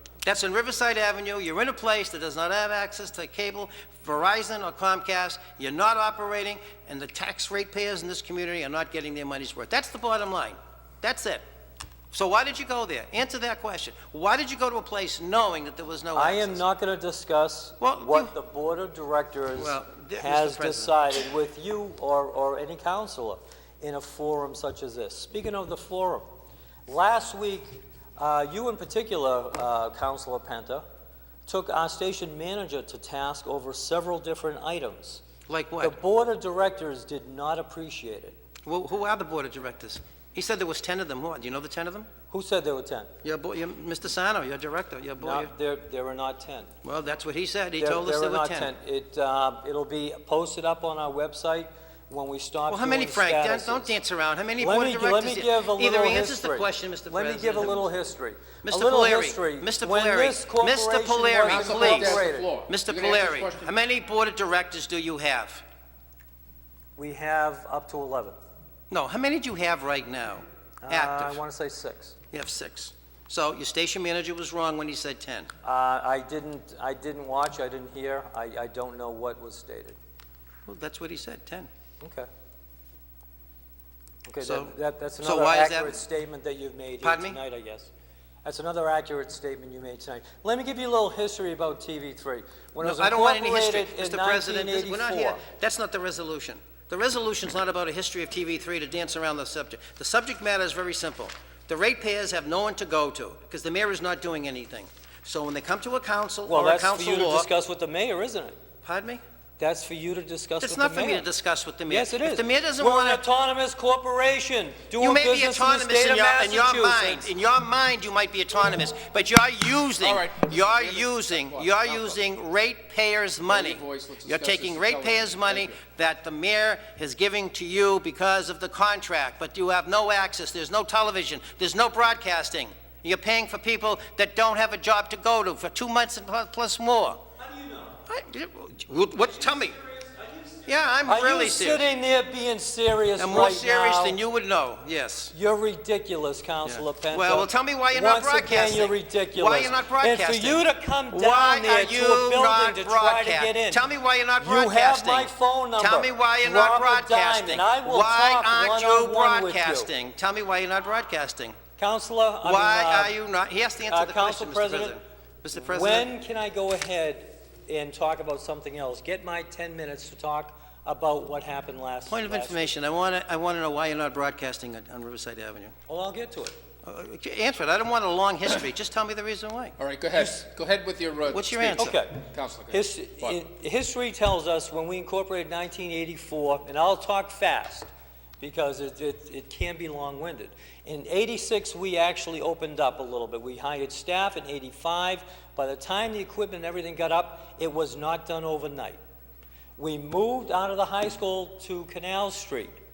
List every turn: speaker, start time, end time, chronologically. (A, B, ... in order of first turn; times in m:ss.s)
0:00.2-0:11.4 A
0:12.1-0:16.6 A
0:16.1-0:26.3 B
0:17.8-0:18.3 A
0:19.6-0:21.2 A
0:26.9-0:30.8 B
0:31.5-0:35.2 B
0:35.5-0:36.0 A
0:35.8-0:38.4 B
0:38.6-0:42.1 A
0:42.3-0:43.1 B
0:43.2-0:45.5 A
0:45.2-0:46.7 B
0:46.8-0:48.7 A
0:47.8-0:53.9 B
0:52.7-0:57.9 A
0:54.6-1:02.5 B
0:58.6-1:05.6 A
1:01.4-1:03.7 C
1:07.0-1:08.4 B
1:08.9-1:11.4 A
1:10.8-1:12.2 B
1:12.3-1:15.5 A
1:15.6-1:20.0 B
1:20.6-1:21.7 A
1:22.0-1:22.3 B
1:24.3-1:27.9 B
1:24.4-1:26.0 A
1:27.0-1:27.4 A
1:28.4-1:35.4 B
1:32.8-1:47.5 A
1:46.5-1:48.6 B
1:48.8-1:49.2 A
1:49.6-1:51.3 B
1:50.6-1:53.2 A
1:51.9-1:57.3 B
1:55.0-2:17.2 A
2:00.0-2:02.2 C
2:03.5-2:05.8 C
2:17.4-2:18.0 B
2:18.1-2:19.8 A
2:19.3-2:24.2 B
2:20.6-2:21.9 A
2:23.2-2:25.3 A
2:25.3-2:33.8 B
2:26.6-2:41.6 A
2:34.4-2:39.9 B
2:41.8-2:43.1 B
2:42.4-2:46.1 A
2:43.9-2:45.0 B
2:45.6-2:52.7 B
2:52.1-2:55.7 A
2:55.9-2:56.6 B
2:56.8-2:59.8 A
2:59.8-3:03.4 C
3:01.3-3:02.0 A
3:01.8-3:07.9 B
3:08.4-3:19.0 B
3:19.8-3:22.7 B